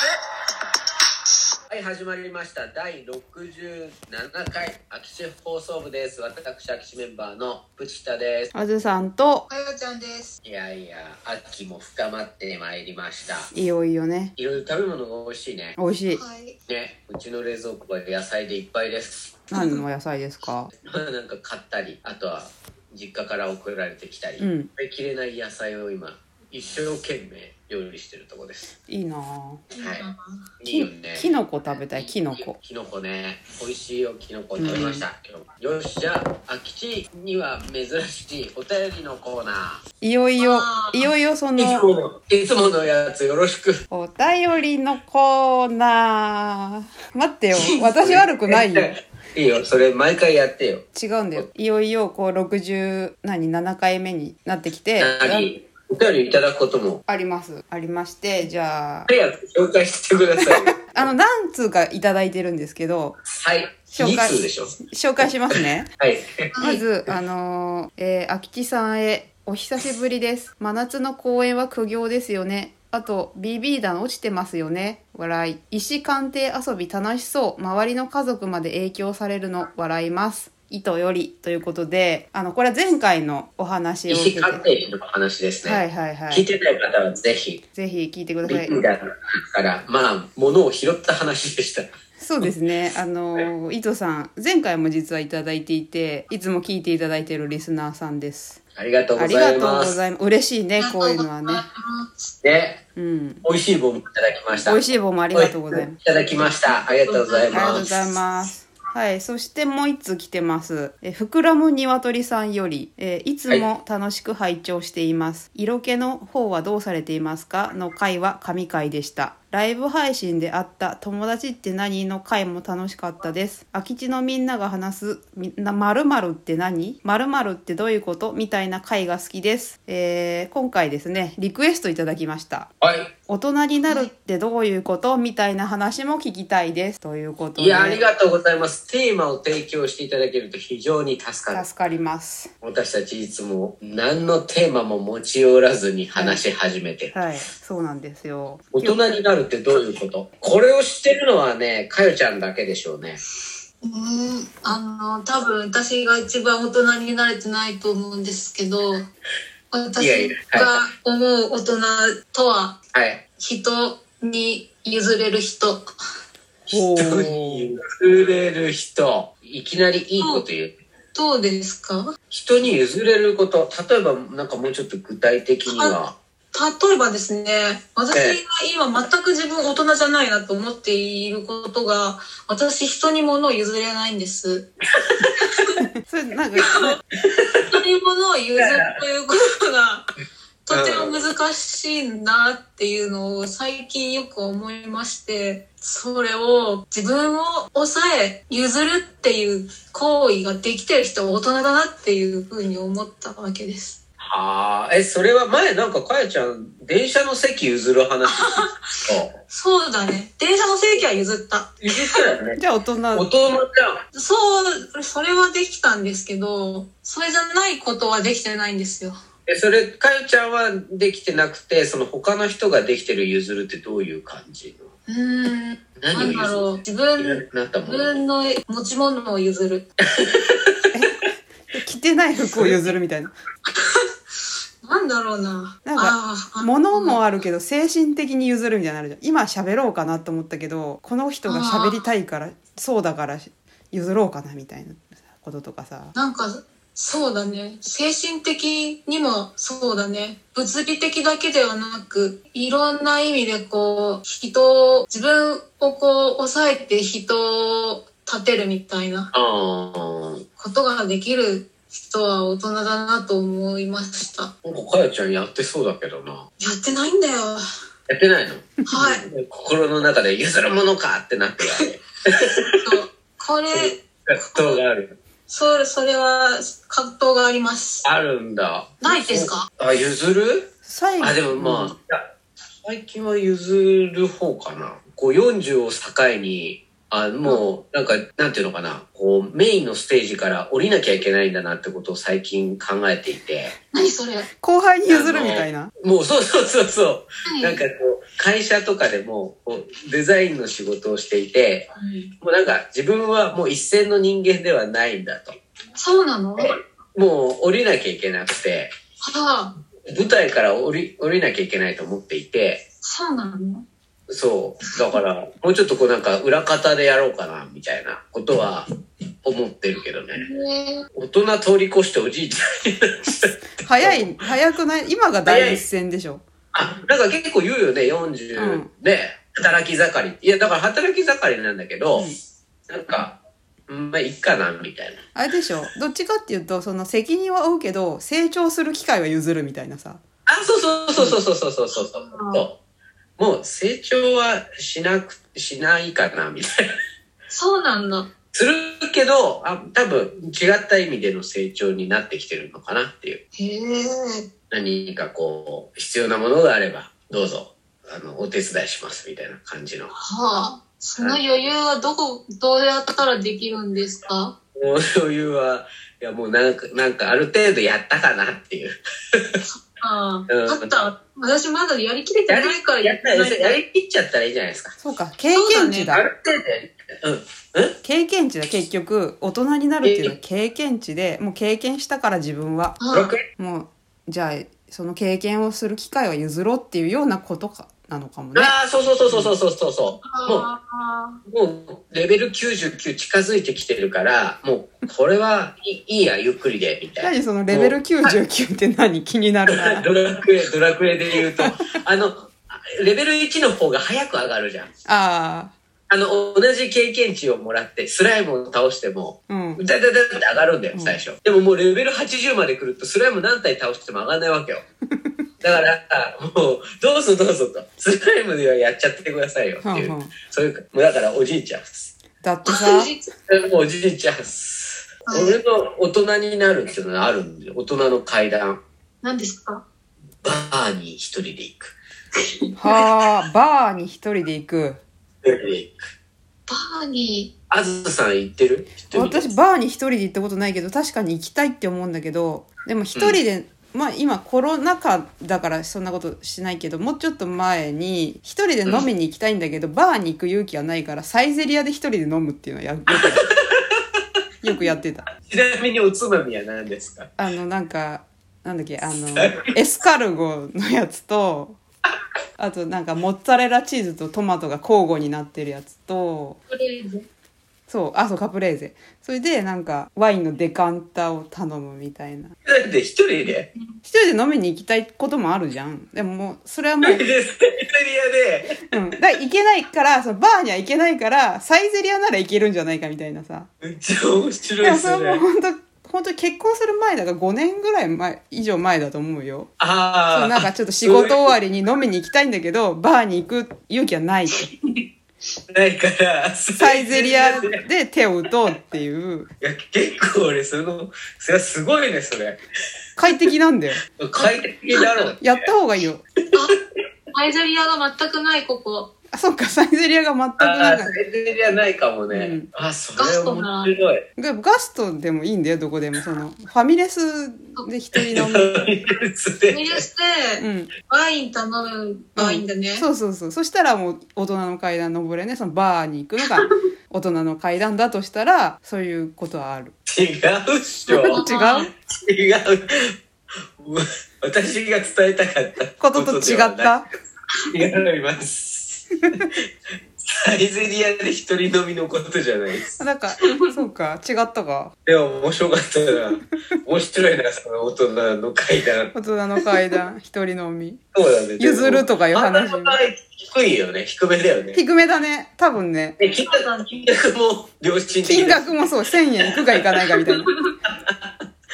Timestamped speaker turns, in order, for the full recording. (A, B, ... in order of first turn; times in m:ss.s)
0:01.7-0:08.5 A
0:08.5-0:09.5 B
0:09.5-0:10.4 C
0:10.4-0:13.5 A
0:13.5-0:14.3 B
0:14.4-0:15.8 A
0:15.8-0:16.2 B
0:16.1-0:16.6 C
0:16.7-0:19.4 A
0:19.5-0:20.7 B
0:19.5-0:19.8 C
0:20.8-0:28.7 A
0:24.4-0:24.7 B
0:28.9-0:29.6 B
0:29.8-0:30.5 C
0:29.8-0:30.1 A
0:30.6-0:31.3 A
0:30.7-0:32.6 B
0:31.9-0:39.8 A
0:34.6-0:35.0 B
0:40.0-0:41.9 B
0:40.4-0:41.1 C
0:41.6-0:43.8 A
0:43.9-0:48.9 B
0:47.5-0:51.5 A
0:50.9-0:55.5 B
0:55.0-0:57.0 A
0:57.1-0:59.1 B
0:59.1-1:01.1 A
1:00.4-1:03.2 B
1:03.4-1:04.8 A
1:03.9-1:05.9 B
1:05.5-1:06.4 A
1:06.5-1:06.8 C
1:06.6-1:24.6 B
1:24.1-1:27.6 A
1:25.6-1:26.5 B
1:27.7-1:28.8 B
1:28.5-1:31.9 A
1:32.2-1:38.6 B
1:38.8-1:40.0 A
1:39.1-1:41.6 B
1:40.8-1:42.3 C
1:42.4-1:42.8 A
1:43.0-1:43.4 B
1:43.4-1:44.8 A
1:44.5-1:46.0 B
1:45.3-1:48.1 A
1:46.4-1:47.8 C
1:47.5-2:12.7 B
2:12.8-2:13.1 A
2:13.3-2:18.0 B
2:13.8-2:14.1 C
2:17.6-2:21.6 A
2:21.5-2:22.5 B
2:22.6-2:27.1 A
2:26.1-2:26.4 B
2:27.1-2:29.0 B
2:28.7-2:33.2 A
2:33.8-2:39.1 C
2:39.7-2:42.8 C
2:40.0-2:40.7 A
2:42.9-2:43.2 A
2:43.4-2:45.8 C
2:46.7-2:50.7 A
2:46.7-2:47.8 B
2:50.2-2:50.4 C
2:51.1-2:52.1 C
2:52.3-2:56.2 A
2:55.7-2:56.0 C
2:56.5-3:04.7 C
2:58.1-2:58.4 A
3:06.0-3:07.0 B
3:07.7-3:10.1 C
3:08.6-3:08.9 A
3:10.6-3:24.0 C
3:10.7-3:11.2 A
3:24.2-3:29.3 A
3:28.3-3:28.8 C
3:29.5-3:32.3 C
3:31.8-3:32.6 A
3:32.6-3:33.3 B
3:33.1-3:34.0 A
3:34.1-3:39.2 C
3:39.4-3:44.9 A
3:45.1-3:49.8 C
3:46.0-3:48.2 A
3:50.2-3:50.7 A
3:50.9-3:51.2 B
3:51.7-3:53.3 B
3:52.5-3:52.8 A
3:53.7-3:54.0 C
3:54.8-3:57.2 C
3:55.8-4:06.1 B
4:01.4-4:02.0 C
4:06.1-4:19.3 C
4:19.3-4:20.4 A
4:20.6-4:24.5 C
4:24.6-4:26.4 A
4:26.6-4:27.6 C
4:28.1-4:32.4 A
4:28.9-4:29.2 C
4:32.5-4:34.8 C
4:33.7-4:35.2 A
4:35.5-4:38.0 C
4:38.0-4:42.2 A
4:39.0-4:39.7 C
4:40.8-4:42.0 B
4:42.8-4:53.7 A
4:53.9-4:54.5 C
4:54.6-4:55.9 B
4:55.1-5:01.9 A
4:57.4-4:57.8 C
5:02.0-5:02.3 C
5:02.4-5:05.6 A
5:06.0-5:06.8 C
5:06.6-5:08.9 A
5:09.2-5:09.8 C
5:10.1-5:12.8 A
5:13.0-5:13.8 C
5:14.3-5:18.9 A
5:19.4-5:20.4 A
5:20.4-5:21.0 C
5:21.1-5:24.4 A
5:23.8-5:26.4 B
5:25.4-5:25.8 A
5:26.7-5:32.3 A
5:28.6-5:28.9 B
5:32.9-5:35.2 A
5:35.3-5:40.2 B
5:40.4-5:42.8 A
5:41.9-5:42.6 C
5:43.4-5:46.7 A
5:47.5-5:48.3 C
5:48.5-5:53.4 A
5:53.6-5:54.5 C
5:54.7-6:00.1 A
6:00.1-6:04.5 C
6:04.8-6:09.6 A
6:09.6-6:13.8 C
6:10.5-6:11.0 A
6:12.5-6:14.9 A
6:15.0-6:16.2 B
6:15.5-6:16.1 C
6:16.1-6:18.0 A
6:18.0-6:23.0 B
6:20.0-6:20.3 A
6:23.0-6:23.3 C
6:23.1-6:23.4 A
6:23.5-6:29.5 B
6:28.5-6:30.6 A
6:30.2-6:31.4 C
6:31.4-6:38.4 A
6:37.2-6:40.1 B
6:39.7-6:44.9 A
6:41.6-6:41.8 B
6:45.0-6:45.7 B
6:46.1-6:54.8 A
6:49.5-6:49.8 B
6:50.9-6:51.2 B
6:55.6-7:02.1 A
6:59.8-7:00.3 B
7:02.4-7:03.1 B
7:02.6-7:03.3 C
7:03.5-7:08.8 A
7:05.3-7:05.6 C
7:09.2-7:09.8 C
7:10.4-7:11.9 A
7:12.8-7:15.0 B
7:15.4-7:16.0 A
7:16.7-7:17.5 C
7:17.7-7:19.5 A
7:19.1-7:33.5 B
7:33.1-7:33.8 A
7:34.6-7:35.3 B
7:35.4-7:37.3 A
7:37.4-7:41.8 B
7:39.3-7:39.7 A
7:42.6-7:46.6 B
7:46.7-7:47.2 C
7:47.9-7:52.5 B
7:52.6-7:53.7 A
7:54.0-7:57.2 B
7:57.0-7:58.8 A
7:58.9-8:03.7 B
8:03.8-8:05.4 A
8:04.8-8:09.7 B
8:09.8-8:11.4 A
8:10.3-8:14.6 B
8:15.7-8:17.8 A
8:16.8-8:19.5 B
8:19.6-8:22.6 A
8:23.2-8:24.0 B
8:24.2-8:25.4 A
8:25.0-8:25.3 C
8:25.4-8:26.2 B
8:27.3-8:29.1 C
8:29.3-8:31.2 B
8:30.6-8:34.2 A
8:32.3-8:32.7 B
8:33.1-8:33.9 C
8:34.4-8:38.9 B
8:38.1-8:40.0 A
8:39.7-8:43.1 C
8:40.6-8:40.9 B
8:42.4-8:49.9 B
8:50.1-8:51.4 A
8:51.1-8:51.9 B
8:51.2-8:51.9 C
8:52.1-8:53.1 A
8:53.8-8:56.9 A
8:56.0-8:57.0 B
8:57.7-8:59.0 A
9:00.2-9:03.0 A
9:03.0-9:04.9 B
9:05.0-9:09.1 A
9:09.1-9:11.0 B
9:11.1-9:14.8 A
9:11.6-9:13.0 B
9:14.7-9:16.2 B
9:16.2-9:20.1 A
9:16.4-9:16.8 C
9:18.2-9:20.5 B
9:20.8-9:21.3 A